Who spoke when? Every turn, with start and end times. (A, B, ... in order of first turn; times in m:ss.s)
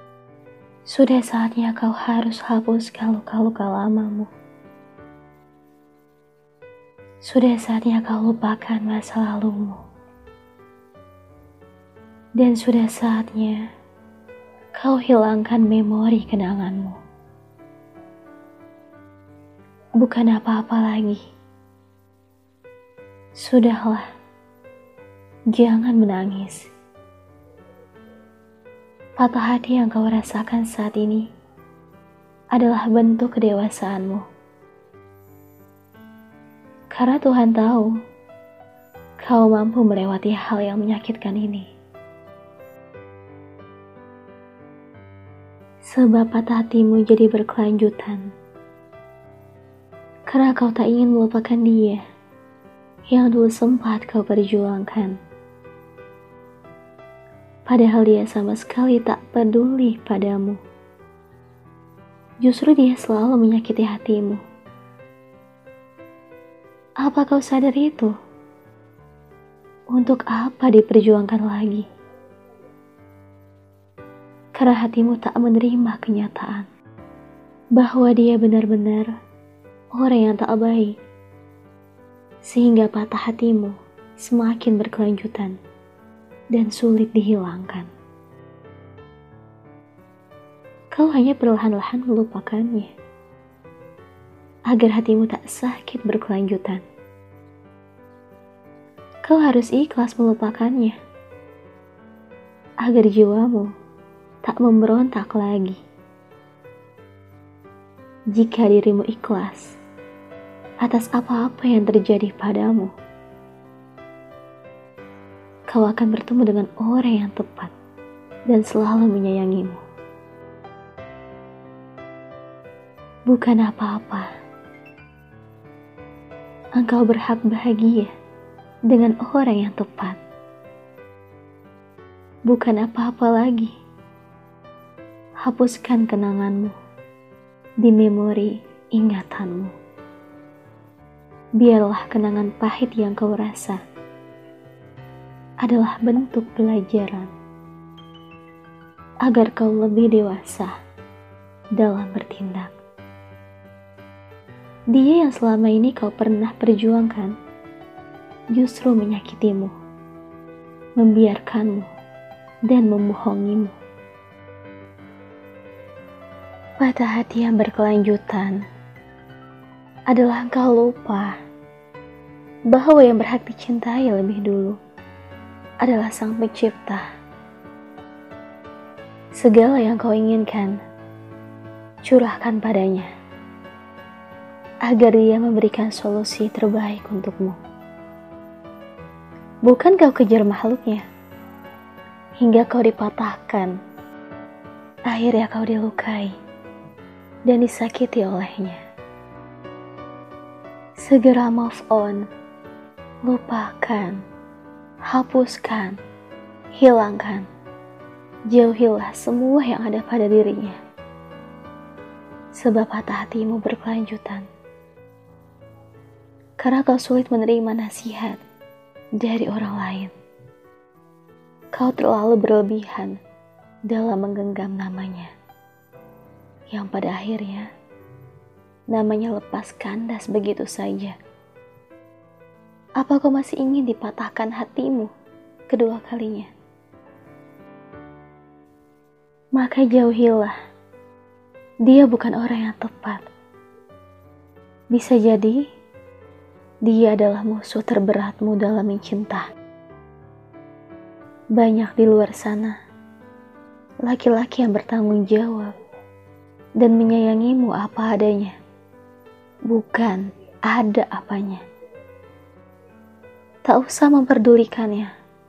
0:00.9-0:04.3 A
0:07.2-0:09.8 A
0:12.4-0:13.7 A
0:14.8-0:17.0 A
0:20.0-0:21.2 A
0:23.4-0:24.0 A
0:25.5-0:26.7 A
0:29.2-0:31.3 A
0:32.5-0:34.2 A
0:36.9-0:37.9 A
0:39.2-0:41.7 A
0:45.8-0:48.3 A
0:50.3-0:52.0 A
0:53.1-0:55.2 A
0:57.6-1:00.6 A
1:02.4-1:04.4 A
1:07.0-1:08.1 A
1:09.9-1:11.8 A
1:14.5-1:16.7 A
1:17.8-1:19.1 A
1:19.9-1:20.9 A
1:22.4-1:25.6 A
1:26.5-1:27.9 A
1:30.9-1:32.9 A
1:34.7-1:36.8 A
1:39.2-1:41.0 A
1:42.8-1:43.7 A
1:44.4-1:45.8 A
1:48.3-1:49.8 A
1:50.8-1:52.9 A
1:55.7-1:57.7 A
1:58.5-1:59.8 A
2:03.3-2:04.3 A
2:06.8-2:08.1 A
2:08.9-2:10.2 A
2:12.5-2:13.7 A
2:15.4-2:16.7 A
2:17.8-2:19.7 A
2:21.6-2:23.8 A
2:25.6-2:27.3 A
2:29.2-2:30.7 A
2:31.8-2:32.7 A
2:34.9-2:37.3 A
2:38.5-2:39.7 A
2:41.0-2:41.9 A
2:42.7-2:43.7 A
2:46.8-2:48.6 A
2:50.1-2:51.3 A
2:52.7-2:54.8 A
2:55.8-2:57.0 A
2:59.3-3:00.8 A
3:02.0-3:03.1 A
3:04.8-3:07.6 A
3:09.6-3:11.0 A
3:12.4-3:13.7 A
3:15.1-3:16.3 A
3:17.4-3:18.8 A
3:21.0-3:22.3 A
3:23.2-3:24.2 A
3:25.0-3:26.0 A
3:26.7-3:27.5 A
3:28.5-3:30.8 A
3:32.5-3:34.5 A
3:36.6-3:38.4 A
3:39.2-3:40.1 A
3:41.7-3:43.2 A
3:43.9-3:45.3 A
3:46.7-3:47.7 A
3:48.9-3:51.2 A
3:53.0-3:55.1 A
3:55.7-3:56.5 A
3:59.6-4:00.5 A
4:01.8-4:03.2 A
4:04.9-4:05.6 A
4:06.8-4:09.5 A
4:11.6-4:12.8 A
4:14.0-4:15.7 A
4:16.8-4:18.6 A
4:19.7-4:21.6 A
4:23.6-4:25.1 A